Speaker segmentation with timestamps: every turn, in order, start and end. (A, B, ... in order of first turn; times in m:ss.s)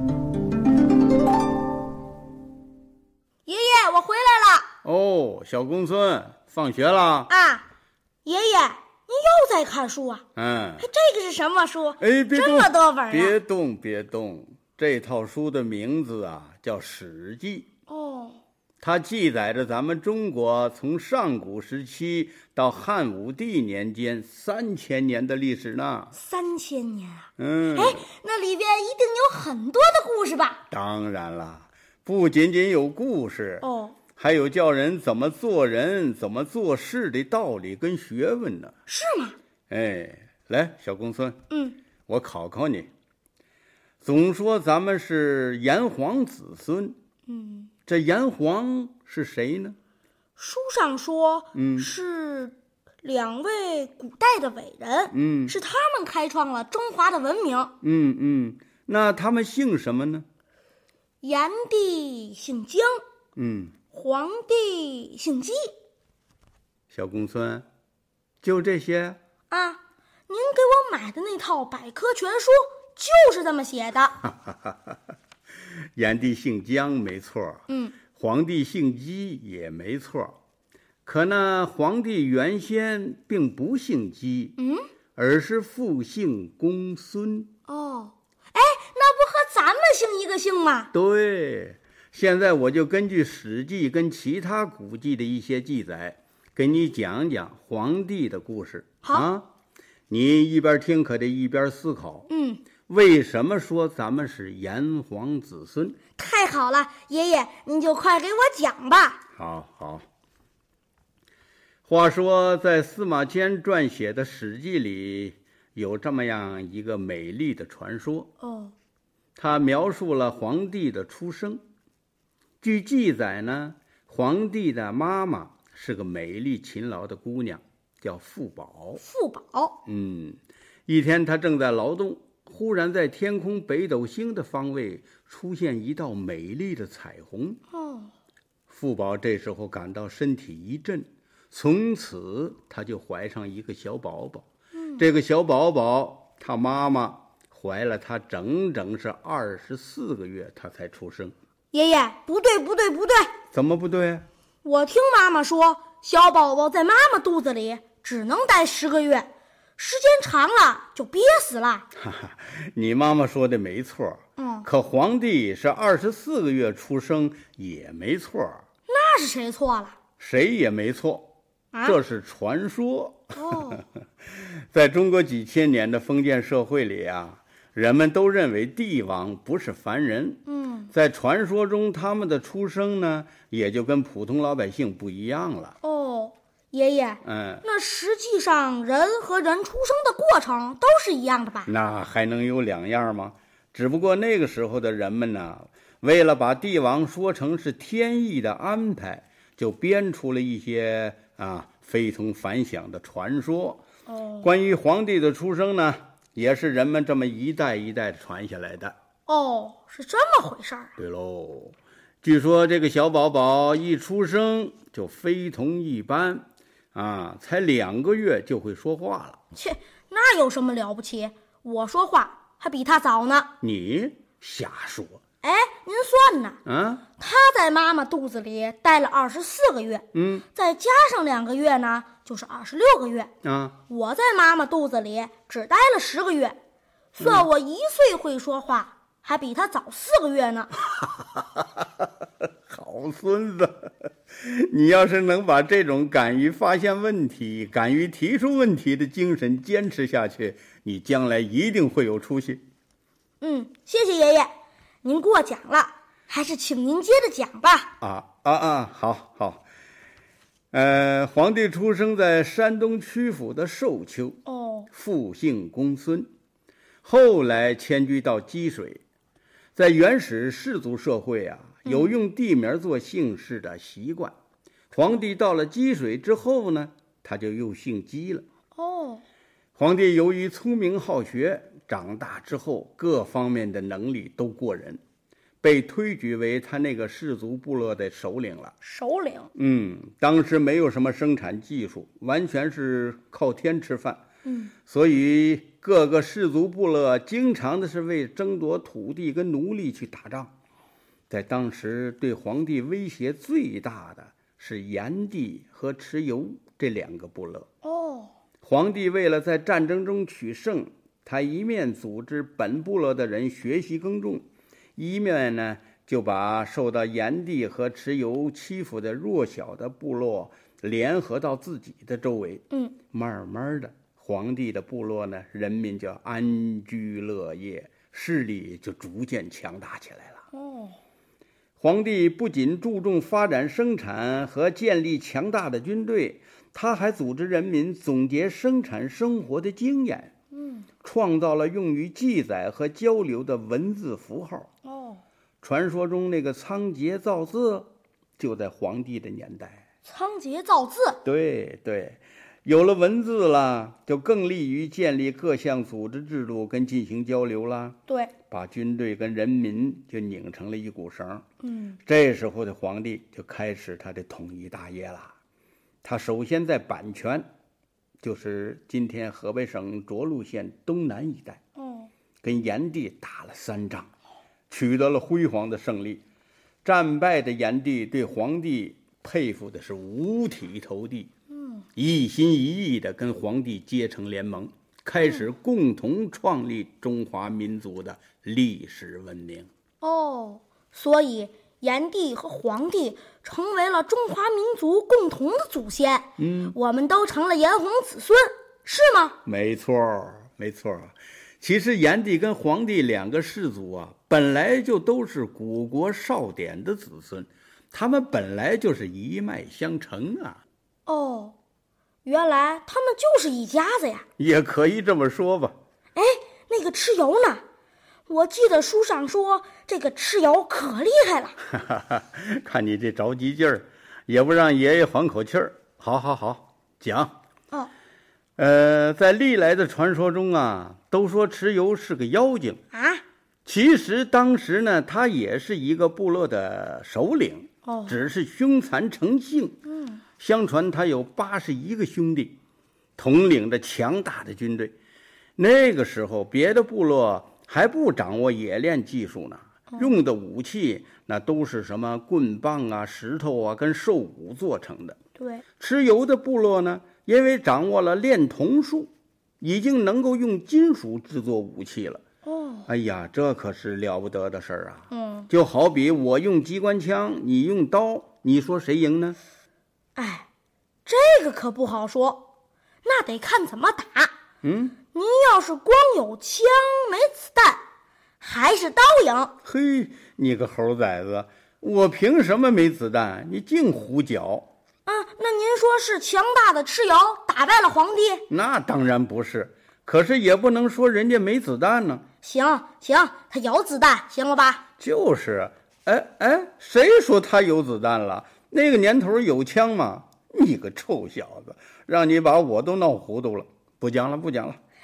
0:03.4-0:04.7 A
0:04.8-0:07.3 B
0:07.3-0:07.6 A
0:08.2-0:10.2 A
0:10.4-0:10.9 B
0:10.8-0:13.4 A
0:12.0-0:17.7 B
0:17.9-0:18.4 A
0:18.8-0:26.1 B
0:26.1-0:30.6 A
0:27.4-0:28.1 B
0:30.7-0:38.7 B
0:33.6-0:34.0 A
0:38.9-0:39.4 A
0:39.7-0:41.4 B
0:41.5-0:41.8 A
0:42.1-0:42.9 B
0:44.0-0:47.0 B
0:47.3-0:47.7 A
0:47.8-0:49.8 B
0:50.4-0:57.7 A
0:51.5-0:51.9 B
0:55.1-0:55.6 B
0:57.8-1:00.2 B
1:01.2-1:03.0 A
1:03.4-1:03.7 B
1:03.9-1:05.7 A
1:06.9-1:07.6 B
1:08.4-1:09.2 B
1:09.5-1:14.2 A
1:14.4-1:14.9 B
1:16.0-1:20.4 B
1:17.7-1:18.0 A
1:21.0-1:24.6 B
1:24.6-1:24.9 A
1:25.2-1:27.5 B
1:27.7-1:30.9 A
1:30.9-1:39.5 B
1:39.0-1:39.3 A
1:40.1-1:42.3 B
1:42.3-1:42.6 A
1:42.9-1:46.0 B
1:46.2-1:49.2 A
1:49.3-1:50.0 B
1:51.8-1:58.3 B
1:58.4-1:58.7 A
1:59.4-2:01.6 B
2:02.6-2:09.0 B
2:09.0-2:09.8 A
2:09.8-2:17.6 B
2:17.7-2:18.1 A
2:18.7-2:24.4 B
2:24.7-2:25.0 A
2:25.0-2:31.3 B
2:31.7-2:33.3 A
2:33.5-2:34.2 B
2:34.6-2:41.9 A
2:41.9-2:48.6 B
2:44.4-2:44.7 A
2:48.9-2:50.0 A
2:50.2-2:51.3 B
2:51.7-2:52.0 A
2:51.8-3:05.8 B
2:53.3-2:53.8 A
3:00.4-3:00.9 A
3:05.8-3:11.7 A
3:07.2-3:07.6 B
3:11.6-3:23.8 B
3:24.1-3:24.5 A
3:24.4-3:29.0 B
3:29.3-3:30.9 A
3:31.0-3:39.4 B
3:39.5-3:43.5 A
3:43.6-3:45.2 B
3:45.4-3:46.6 A
3:46.6-3:47.0 B
3:47.2-3:53.3 A
3:50.1-3:50.4 B
3:53.4-3:53.8 B
3:53.9-3:56.6 A
3:57.2-4:00.7 A
3:57.2-3:57.4 B
4:02.7-4:12.6 B
4:13.4-4:14.5 A
4:15.0-4:17.9 A
4:18.0-4:19.6 B
4:20.7-4:24.4 B
4:24.4-4:24.9 A
4:24.9-4:26.3 B
4:27.0-4:29.0 B
4:29.7-4:34.3 B
4:31.8-4:32.1 A
4:34.9-4:38.4 B
4:38.8-4:39.2 A
4:39.8-4:45.0 B
4:45.6-4:48.7 B
4:48.8-4:49.5 A
4:49.5-4:54.2 B
4:54.4-4:54.7 A
4:54.8-5:00.5 B
5:01.3-5:07.7 B
5:07.8-5:08.3 A
5:08.6-5:14.4 B
5:15.0-5:30.4 B
5:30.5-5:31.0 A
5:31.8-5:40.3 B
5:40.5-5:40.9 A
5:41.0-5:44.7 B
5:44.8-5:45.2 A
5:45.6-5:49.8 B
5:50.0-5:51.2 A
5:51.2-5:58.0 B
5:58.1-5:58.3 A
5:58.5-6:01.4 B
6:01.6-6:02.0 A
6:02.0-6:05.3 B
6:06.0-6:07.5 B
6:08.2-6:11.6 B
6:11.8-6:12.1 A
6:12.4-6:14.1 B
6:14.7-6:16.2 B
6:16.8-6:21.3 B
6:21.5-6:21.8 A
6:22.0-6:29.7 B
6:30.0-6:39.4 A
6:36.4-6:36.8 B
6:39.4-6:50.6 B
6:51.0-6:51.5 A
6:52.2-6:54.2 A
6:54.4-6:55.8 B
6:56.1-6:57.6 A
6:58.3-7:01.6 A
7:01.7-7:07.4 B
7:08.6-7:12.8 B
7:12.9-7:13.2 A
7:13.6-7:19.8 B
7:17.8-7:18.2 A
7:19.9-7:20.2 A
7:20.4-7:22.6 B
7:23.2-7:24.9 B
7:25.6-7:35.2 B
7:35.8-7:39.1 B
7:39.6-7:42.2 B
7:42.4-7:42.9 A
7:42.9-7:49.4 B
7:45.1-7:45.5 A
7:50.2-7:50.5 A
7:51.0-7:52.5 A
7:53.0-7:54.3 A
7:54.6-7:55.0 B
7:55.1-7:57.8 A
7:58.4-7:59.5 A
7:59.6-8:04.7 B
8:05.0-8:08.4 A
8:08.5-8:12.2 B
8:12.4-8:14.8 A
8:15.0-8:24.8 B